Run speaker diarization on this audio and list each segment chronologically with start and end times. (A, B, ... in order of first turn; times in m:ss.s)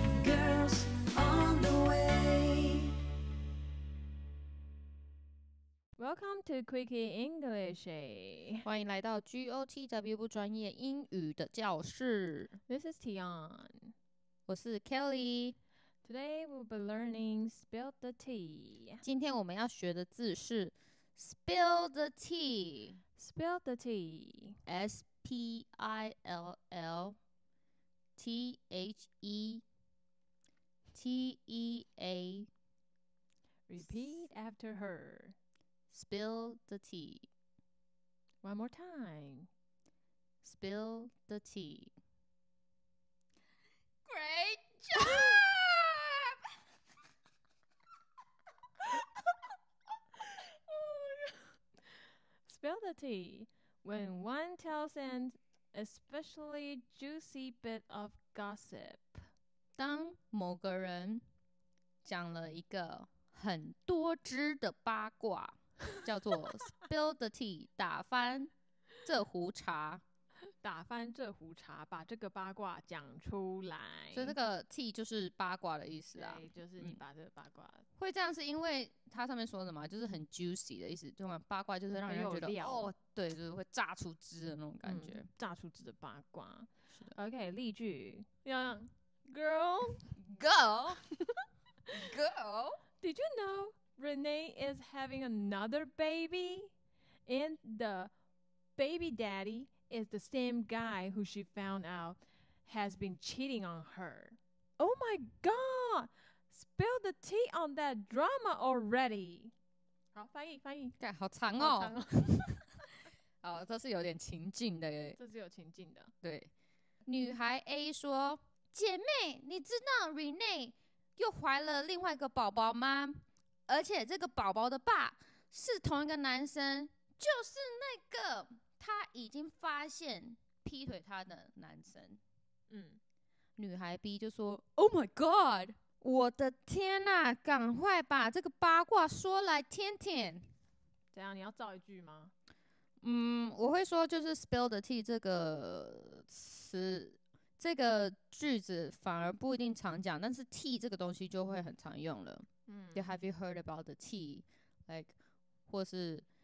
0:00.2-0:02.9 A
0:06.0-0:08.6 B
0:08.6-0:12.6 C
0:12.7-0:13.9 B
0:14.5-0:15.6 C
0:16.0-0:19.0 B
0:19.0-0:23.0 C
0:23.2-0:24.6 B
0:24.6-0:27.2 C
0:28.2-0:29.6 C
0:30.9-0:32.5 C
0:33.7-0:35.3 B
0:35.9-0:37.2 C
0:38.4-0:39.5 B
0:40.4-0:41.9 C
0:44.0-0:46.4 C
0:50.7-0:51.4 B
0:52.4-0:59.2 B
0:59.8-1:01.2 C
1:02.0-1:08.5 C
1:09.0-1:10.0 C
1:10.6-1:14.4 B
1:14.1-1:17.0 C
1:16.1-1:17.8 B
1:18.0-1:25.3 C
1:22.0-1:22.9 B
1:24.8-1:30.1 B
1:30.2-1:31.1 C
1:31.9-1:32.8 C
1:33.0-1:36.7 B
1:37.2-1:38.1 B
1:38.8-1:49.5 B
1:50.1-1:51.0 B
1:51.0-1:52.6 C
1:51.6-1:52.9 B
1:53.4-1:55.2 C
1:55.1-1:56.1 B
1:56.2-1:56.5 C
1:57.0-2:12.2 C
2:12.7-2:13.0 B
2:13.6-2:20.5 C
2:21.1-2:22.3 B
2:23.0-2:35.1 C
2:32.7-2:33.2 B
2:35.7-2:36.2 C